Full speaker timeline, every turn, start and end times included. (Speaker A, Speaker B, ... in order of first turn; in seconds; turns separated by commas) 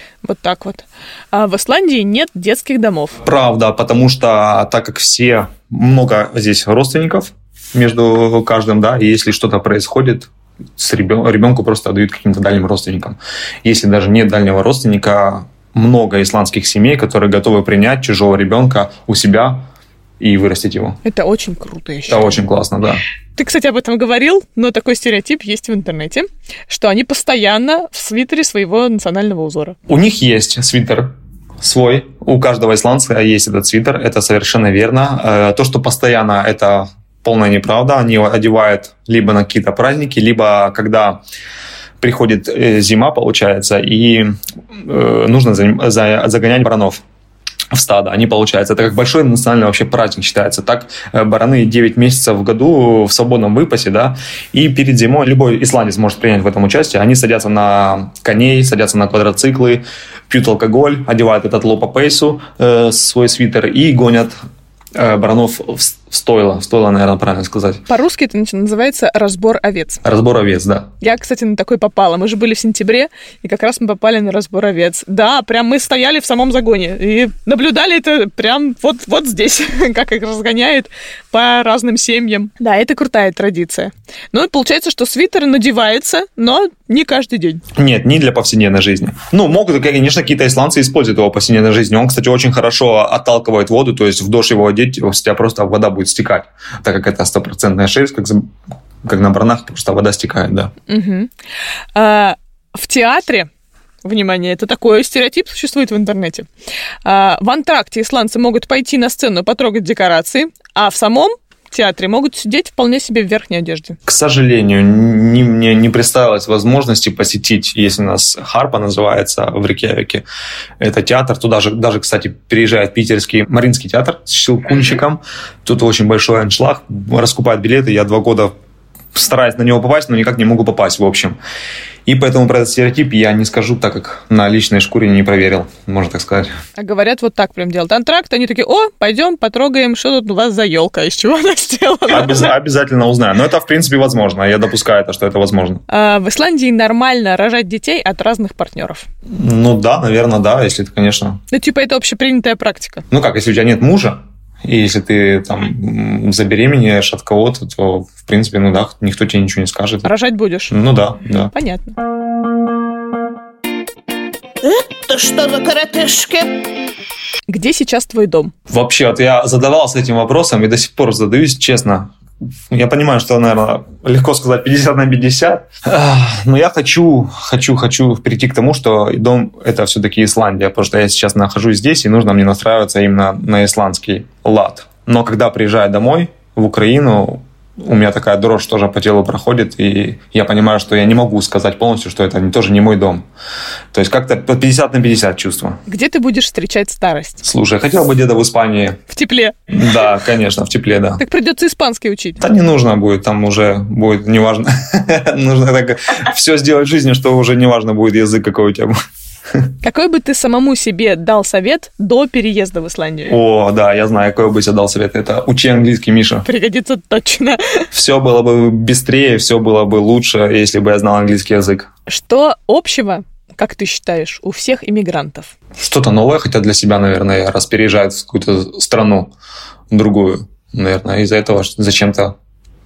Speaker A: 0.2-3.2, Speaker B: 3.2-19.6, Speaker B: 20.2-21.0, Speaker A: 21.0-22.4, Speaker B: 22.1-23.0, Speaker A: 23.4-29.8, Speaker B: 29.9-41.2, Speaker B: 42.0-47.0, Speaker B: 47.7-64.3, Speaker B: 65.0-67.8, Speaker A: 67.9-70.0, Speaker B: 70.0-70.9, Speaker A: 71.0-87.6, Speaker B: 87.7-98.5, Speaker B: 99.0-100.7, Speaker A: 100.9-101.3, Speaker A: 102.0-103.5, Speaker A: 104.0-106.5, Speaker A: 107.0-114.0, Speaker B: 114.1-120.2, Speaker B: 120.8-128.5, Speaker B: 129.1-131.4, Speaker B: 132.1-136.5, Speaker A: 136.8-142.5, Speaker B: 142.1-145.8, Speaker A: 145.9-149.1, Speaker B: 149.3-151.4, Speaker A: 151.5-153.1, Speaker B: 153.1-160.1, Speaker A: 160.0-160.7, Speaker B: 160.7-161.5, Speaker A: 161.5-162.0, Speaker C: 164.6-166.6, Speaker A: 167.5-168.5, Speaker B: 168.7-172.1, Speaker B: 172.7-193.2, Speaker B: 193.9-195.8, Speaker A: 195.9-197.4, Speaker B: 197.4-199.0, Speaker A: 199.1-199.7, Speaker B: 199.7-201.2, Speaker A: 201.2-202.4, Speaker B: 202.4-208.9, Speaker A: 209.8-213.4, Speaker B: 213.3-216.5, Speaker A: 216.5-217.9, Speaker B: 217.9-221.9, Speaker A: 222.1-225.5, Speaker B: 225.8-229.3, Speaker B: 229.9-232.3